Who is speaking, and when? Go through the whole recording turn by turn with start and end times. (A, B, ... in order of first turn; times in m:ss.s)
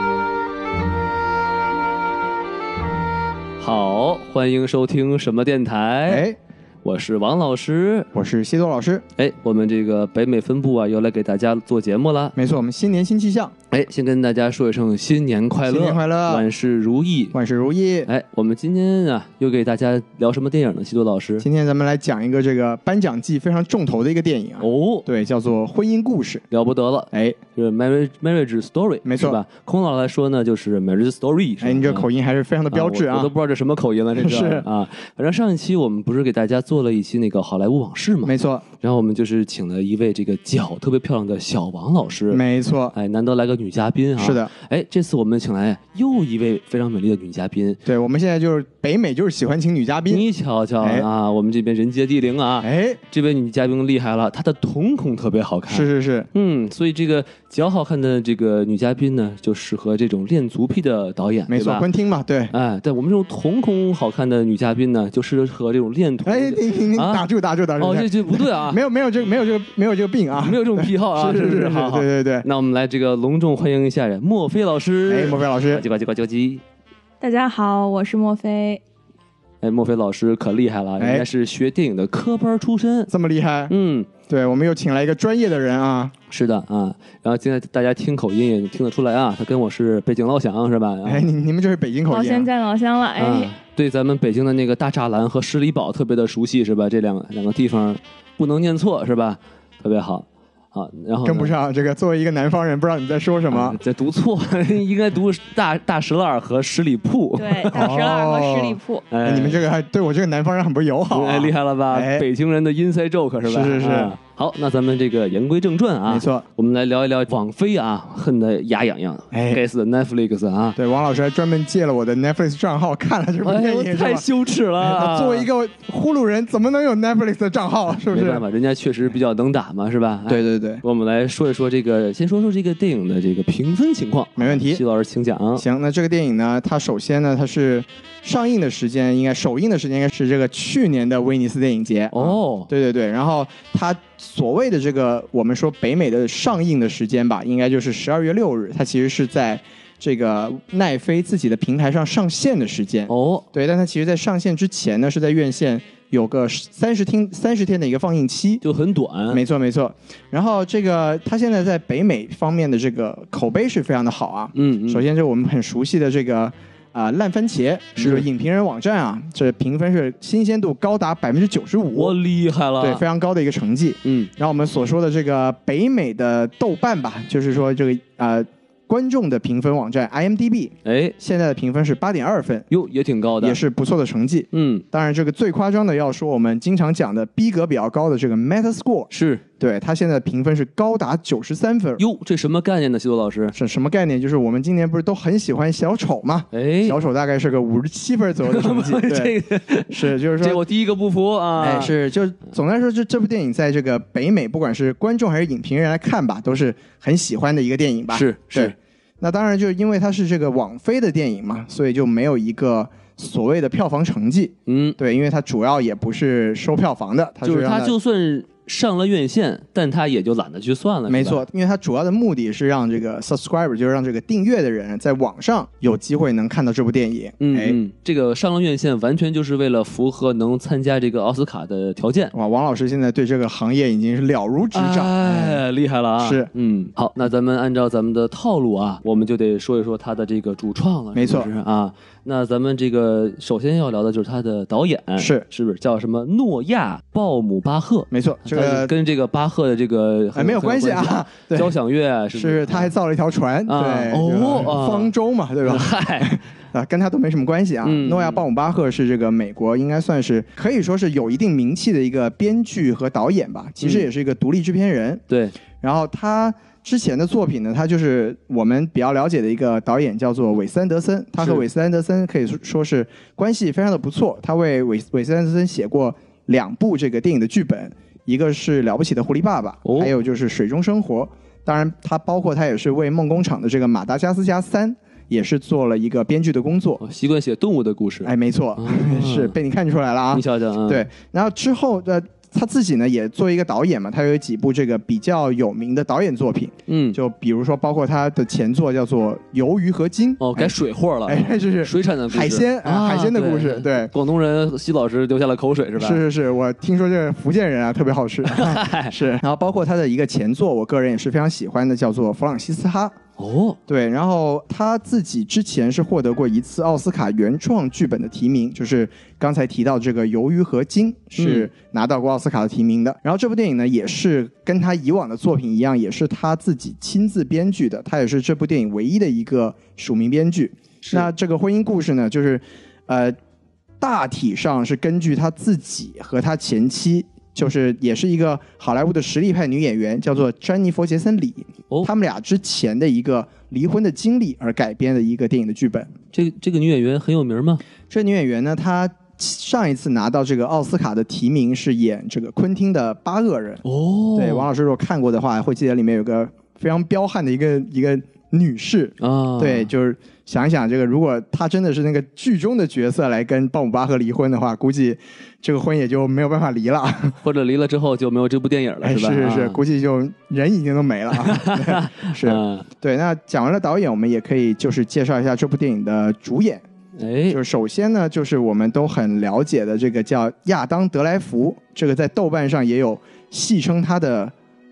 0:03.6-0:06.2 A
0:06.1-0:06.4 B
0:06.8-0:08.1 A
0:08.1-0:09.0 B
0:09.2-0:12.3 A
0:12.4-0:13.5 B
0:13.7-0:17.4 A
0:15.6-0:16.4 B
0:17.3-0:18.1 B
0:18.0-0:21.5 A
0:21.4-0:26.4 B
0:24.6-0:25.1 A
0:26.5-0:32.0 A
0:27.1-0:27.4 B
0:29.0-0:29.4 B
0:31.6-0:33.3 B
0:32.7-0:42.4 A
0:34.2-0:34.6 B
0:38.2-0:38.6 B
0:42.3-0:42.9 B
0:42.9-0:47.8 A
0:44.2-0:44.5 B
0:47.8-0:50.3 B
0:50.1-1:01.9 A
0:50.8-0:51.1 B
0:52.6-0:53.0 B
0:55.7-0:56.3 B
1:01.5-1:02.5 B
1:02.5-1:08.8 A
1:06.2-1:12.4 B
1:10.4-1:16.6 A
1:15.1-1:15.8 B
1:17.2-1:18.8 C
1:19.6-1:23.1 A
1:21.0-1:21.2 B
1:23.1-1:23.7 B
1:23.7-1:24.1 A
1:24.3-1:26.1 B
1:26.3-1:31.3 A
1:31.0-1:32.5 B
1:32.1-1:33.5 C
1:33.2-1:41.5 A
1:41.2-1:43.8 B
1:43.5-1:48.0 A
1:47.4-1:49.1 C
1:47.7-1:52.2 B
1:49.1-1:49.6 A
1:51.1-2:00.8 A
1:53.4-1:54.1 B
1:56.1-1:56.4 B
1:59.3-1:59.6 B
2:00.8-2:08.4 B
2:03.4-2:05.5 A
2:08.1-2:15.6 A
2:10.3-2:10.8 B
2:14.4-2:14.8 B
2:15.6-2:38.6 B
2:22.1-2:22.7 A
2:33.1-2:33.5 A
2:38.6-2:39.4 A
2:39.3-2:52.2 B
2:44.5-2:45.0 A
2:48.0-2:48.2 A
2:51.9-2:53.0 A
2:52.8-3:02.7 B
2:54.0-2:54.3 A
3:00.8-3:01.1 A
3:02.7-3:03.6 A
3:03.4-3:12.0 B
3:04.5-3:04.8 A
3:09.1-3:09.4 A
3:12.0-3:13.6 A
3:13.5-3:19.3 B
3:16.5-3:17.0 A
3:18.4-3:21.9 A
3:19.9-3:20.6 B
3:21.6-3:37.9 B
3:28.1-3:28.7 A
3:34.7-3:35.0 A
3:37.4-3:41.4 A
3:41.1-3:47.8 B
3:47.4-3:52.3 A
3:52.3-3:55.6 B
3:54.7-4:12.9 A
3:56.2-3:56.5 B
4:01.1-4:01.5 B
4:05.2-4:05.4 B
4:08.1-4:08.9 B
4:10.3-4:11.7 B
4:12.3-4:25.2 B
4:13.7-4:15.1 A
4:15.6-4:16.3 A
4:17.8-4:18.4 A
4:23.8-4:24.1 A
4:25.3-4:25.5 A
4:25.8-4:47.0 B
4:39.8-4:40.1 A
4:47.0-4:49.5 A
4:48.2-5:04.1 B
4:50.3-4:51.1 A
4:56.9-4:57.2 A
5:00.4-5:06.2 A
5:06.0-5:13.2 B
5:08.4-5:09.2 A
5:13.4-5:13.8 A
5:13.9-5:33.4 B
5:21.4-5:21.7 A
5:31.0-5:31.3 A
5:34.0-5:46.1 B
5:46.3-5:47.8 A
5:48.1-5:53.8 B
5:53.8-5:54.7 A
5:54.4-6:07.4 B
5:59.2-5:59.9 A
6:07.4-6:09.8 A
6:09.0-6:16.8 B
6:11.4-6:12.8 A
6:17.2-6:17.6 A
6:17.5-6:24.5 B